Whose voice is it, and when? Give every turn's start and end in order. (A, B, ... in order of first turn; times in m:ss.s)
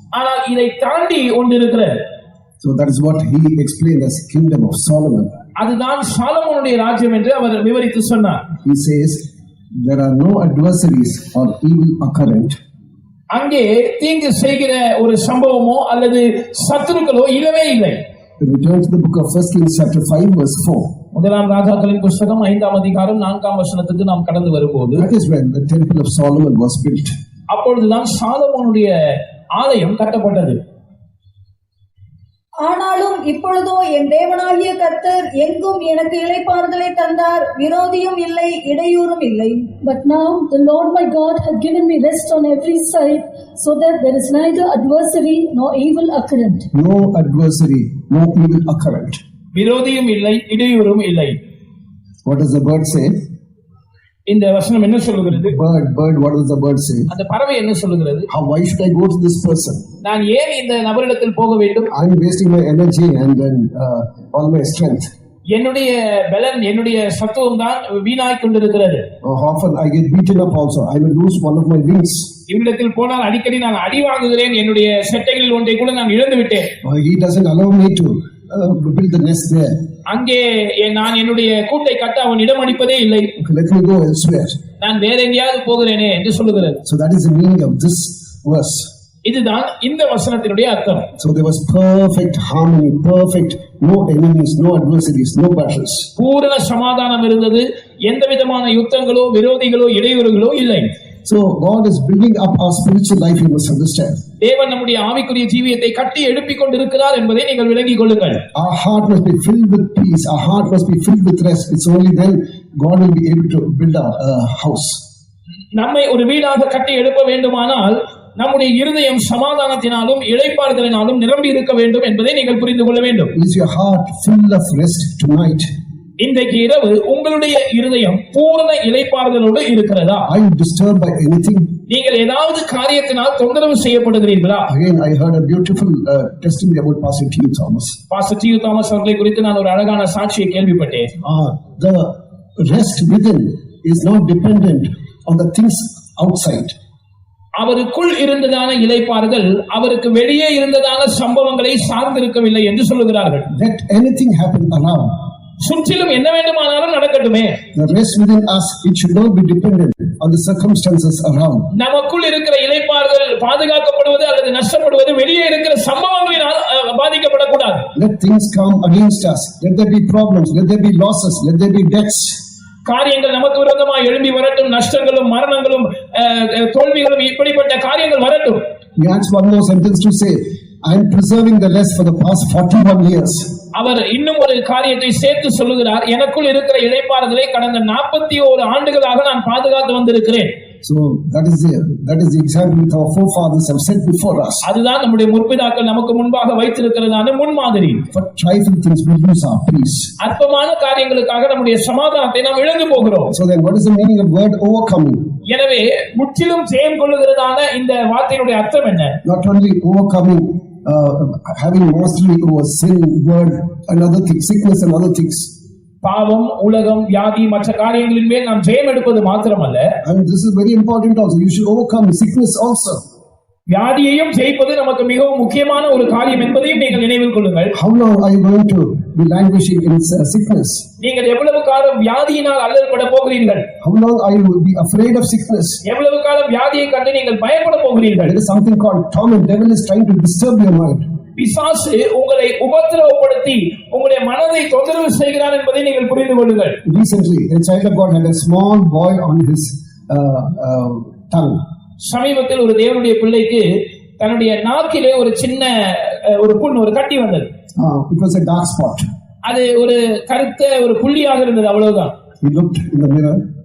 0:00.1-0:02.0 A
0:02.6-0:05.4 B
0:05.6-0:08.4 A
0:08.6-0:09.3 B
0:09.8-0:12.6 B
0:13.3-0:18.0 A
0:18.4-0:20.9 B
0:21.1-0:25.0 A
0:24.9-0:27.1 B
0:27.5-0:30.6 A
0:32.6-0:39.7 C
0:39.8-0:46.7 D
0:46.7-0:49.2 B
0:49.5-0:51.4 A
0:52.2-0:53.2 B
0:54.3-0:55.5 A
0:55.4-0:57.1 B
0:57.1-0:58.3 A
0:58.3-0:59.8 B
1:00.0-1:01.9 A
1:01.9-1:05.1 B
1:05.5-1:09.0 A
1:09.2-1:12.3 B
1:12.5-1:16.7 A
1:16.8-1:19.7 B
1:20.1-1:23.3 A
1:23.4-1:24.6 B
1:24.8-1:26.8 A
1:26.8-1:28.9 B
1:29.2-1:31.1 A
1:31.2-1:36.1 B
1:36.2-1:40.9 A
1:41.2-1:44.2 B
1:44.4-1:48.4 A
1:48.5-1:55.0 B
1:55.8-2:03.3 A
2:03.3-2:05.7 B
2:06.2-2:10.3 A
2:10.3-2:11.7 B
2:11.9-2:14.7 A
2:14.7-2:18.0 B
2:18.1-2:21.1 A
2:21.2-2:26.7 B
2:27.6-2:33.5 A
2:33.5-2:35.2 B
2:35.6-2:37.6 A
2:37.7-2:41.7 B
2:41.7-2:47.9 A
2:47.9-2:52.4 B
2:52.8-2:58.6 A
2:59.0-3:03.6 B
3:03.7-3:10.5 A
3:10.8-3:14.6 B
3:14.6-3:18.0 A
3:18.1-3:20.1 B
3:20.2-3:23.3 A
3:23.3-3:25.3 B
3:25.5-3:29.2 A
3:29.2-3:35.5 B
3:36.0-3:39.9 A
3:40.0-3:43.0 B
3:43.7-3:47.7 A
3:47.7-3:50.8 B
3:51.0-3:53.6 A
3:53.8-3:55.8 B
3:55.8-3:58.3 A
3:58.2-4:01.0 B
4:01.4-4:06.8 A
4:06.8-4:11.6 B
4:12.0-4:17.5 A
4:17.8-4:19.0 B
4:19.4-4:22.1 A
4:22.4-4:23.4 B